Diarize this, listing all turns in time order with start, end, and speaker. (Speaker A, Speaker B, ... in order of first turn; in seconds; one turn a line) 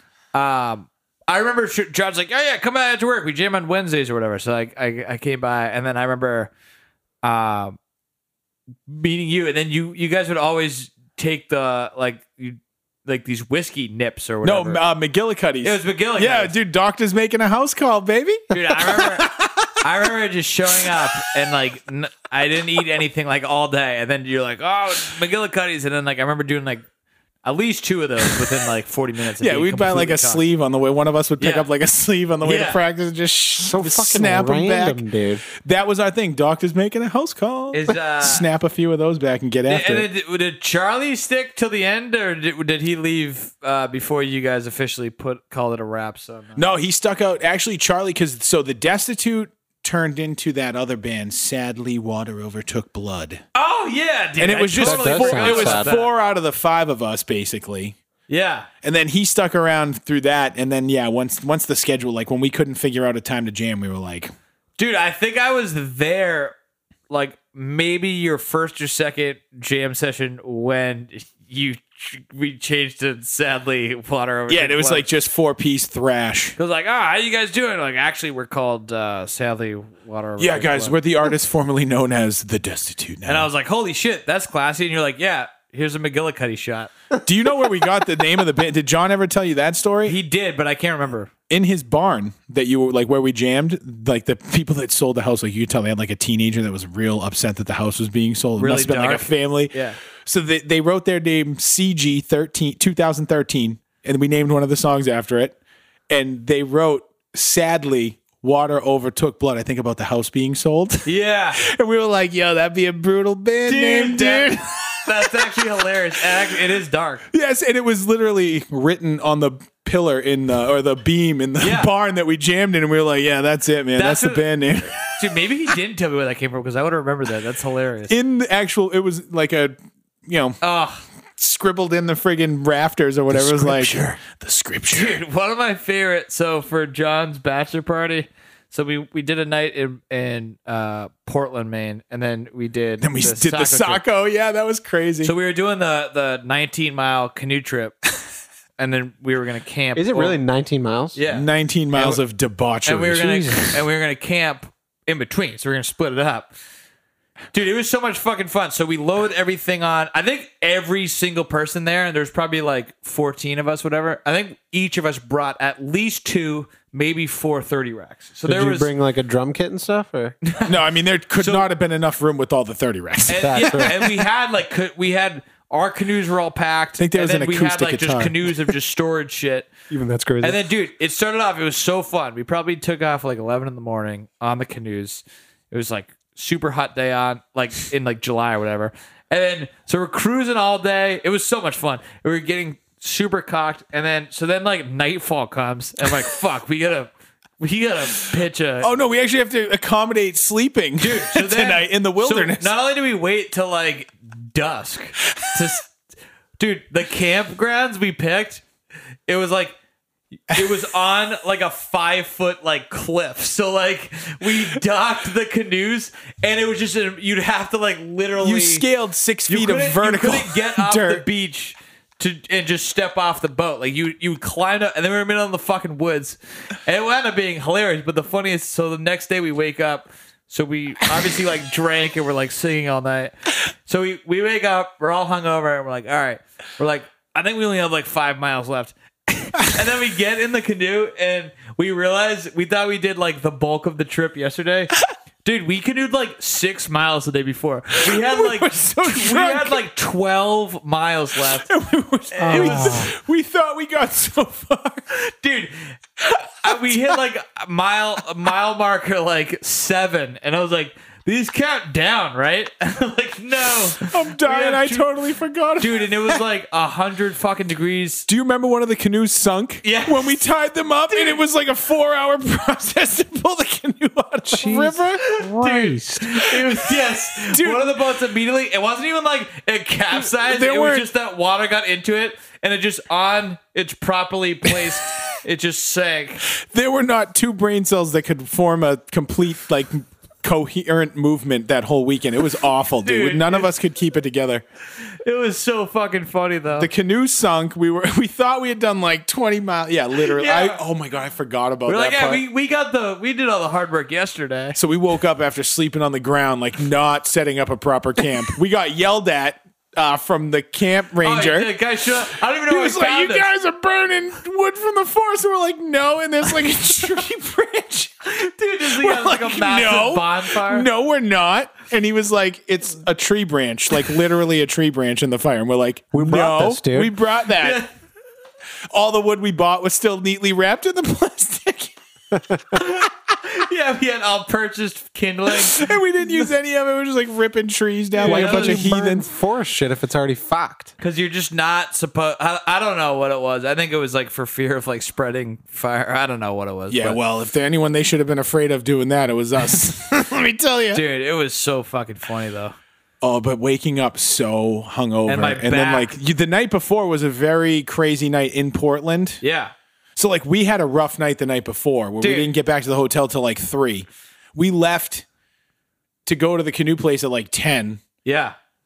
Speaker A: 0.3-6.5
Speaker A: 7.2-7.8
Speaker A: 8.9-14.8
Speaker B: 14.4-19.8
Speaker A: 15.6-16.5
Speaker A: 18.5-19.3
Speaker A: 19.8-26.8
Speaker A: 27.4-30.4
Speaker B: 29.4-35.0
Speaker A: 31.4-31.7
Speaker A: 32.4-32.8
Speaker C: 33.6-35.4
Speaker B: 35.6-40.1
Speaker A: 37.7-38.4
Speaker A: 39.7-46.8
Speaker B: 46.5-53.4
Speaker A: 53.5-56.1
Speaker B: 54.4-58.0
Speaker C: 54.8-55.9
Speaker A: 58.3-58.7
Speaker B: 58.8-64.3
Speaker A: 64.8-66.5
Speaker A: 67.1-75.0
Speaker B: 74.5-76.5
Speaker A: 76.6-81.0
Speaker B: 80.4-83.5
Speaker A: 83.2-86.9
Speaker B: 87.2-90.2
Speaker A: 90.0-91.3
Speaker B: 91.5-105.5
Speaker A: 98.6-100.0
Speaker B: 106.1-111.1
Speaker A: 111.0-111.6
Speaker B: 111.6-115.5
Speaker A: 113.7-114.5
Speaker A: 115.0-117.2
Speaker B: 117.3-125.1
Speaker A: 121.6-121.9
Speaker A: 124.0-128.1
Speaker B: 128.1-129.7
Speaker B: 130.3-130.6
Speaker A: 130.6-131.0
Speaker B: 131.4-135.2
Speaker A: 133.4-133.9
Speaker A: 134.9-144.0
Speaker B: 143.0-145.3
Speaker A: 145.2-148.0
Speaker A: 148.8-150.4
Speaker C: 149.9-151.2
Speaker A: 151.1-152.2
Speaker B: 151.3-153.6
Speaker A: 152.8-156.5
Speaker C: 153.2-153.7
Speaker A: 157.5-168.9
Speaker C: 168.4-170.3
Speaker A: 170.5-170.7
Speaker B: 170.6-174.2
Speaker A: 171.4-171.7
Speaker A: 173.3-179.7
Speaker C: 173.4-174.1
Speaker B: 177.0-178.6
Speaker C: 179.9-180.6
Speaker A: 180.4-198.9
Speaker B: 198.8-202.7
Speaker A: 201.0-205.9
Speaker A: 206.6-208.6
Speaker A: 209.3-209.8
Speaker A: 210.5-218.8
Speaker B: 210.5-210.8
Speaker B: 218.4-221.2
Speaker A: 219.5-233.3
Speaker A: 233.8-251.7
Speaker B: 248.0-249.8
Speaker B: 251.5-255.0
Speaker A: 252.4-253.0
Speaker C: 252.4-253.1
Speaker A: 255.3-255.9
Speaker B: 256.2-257.1
Speaker A: 256.6-265.1
Speaker B: 264.0-266.4
Speaker A: 265.8-268.3
Speaker B: 268.3-275.2
Speaker A: 269.8-270.4
Speaker A: 271.1-271.4
Speaker C: 274.5-276.4
Speaker A: 274.7-286.4
Speaker B: 277.4-278.1
Speaker B: 280.1-281.1
Speaker B: 286.6-294.6
Speaker A: 293.0-293.7
Speaker A: 295.2-296.9
Speaker B: 296.8-302.4
Speaker A: 300.2-300.8
Speaker A: 301.9-304.8
Speaker B: 304.7-311.7
Speaker A: 311.2-313.5
Speaker B: 312.3-318.2
Speaker A: 318.2-320.9
Speaker B: 318.8-327.8
Speaker C: 326.1-327.1
Speaker A: 327.6-327.9
Speaker B: 328.9-331.9
Speaker A: 332.7-335.9
Speaker B: 335.6-339.3
Speaker A: 338.2-338.8
Speaker C: 338.2-340.9
Speaker A: 341.0-347.2
Speaker B: 346.9-351.0
Speaker A: 350.9-352.8
Speaker B: 353.2-359.4
Speaker A: 355.2-356.1
Speaker A: 359.4-359.7
Speaker B: 360.1-365.2
Speaker A: 362.2-362.5
Speaker B: 366.2-368.0
Speaker A: 368.2-368.6